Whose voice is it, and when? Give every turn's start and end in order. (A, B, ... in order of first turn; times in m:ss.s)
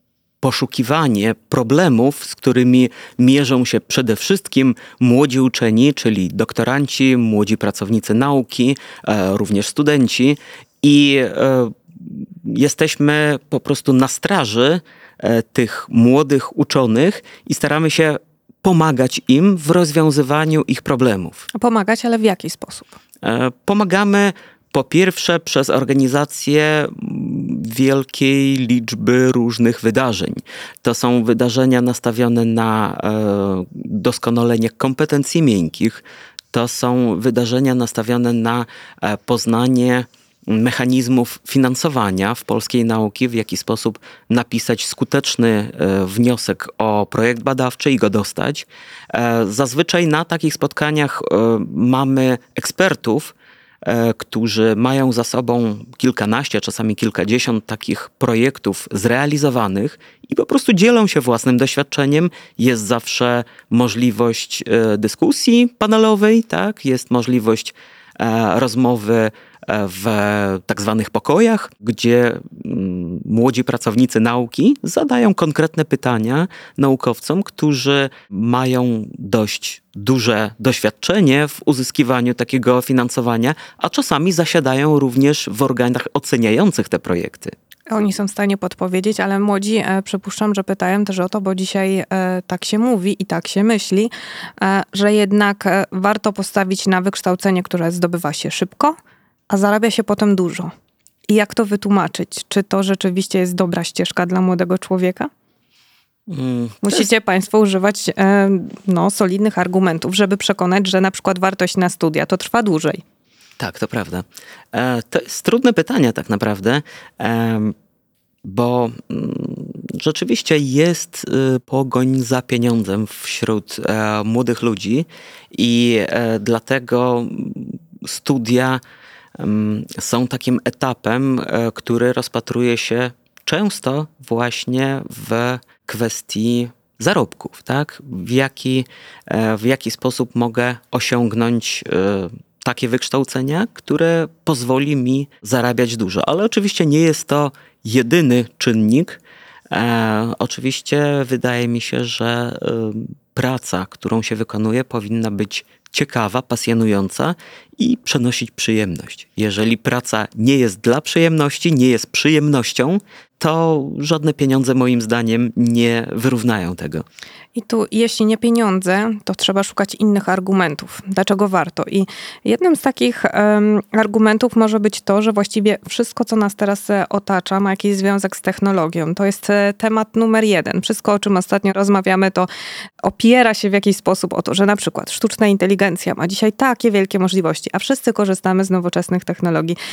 0:00.4-0:21.5 A
0:21.5-0:23.0 B
0:23.2-1:27.5 A
1:27.9-1:38.9 B
1:39.5-1:40.7 B
1:41.3-1:45.3 B
1:46.3-1:47.1 A
1:46.8-1:53.0 B
1:53.6-1:57.7 A
1:58.4-2:08.8 A
2:09.4-2:47.0 A
2:47.5-3:02.5 B
3:03.0-3:09.8 B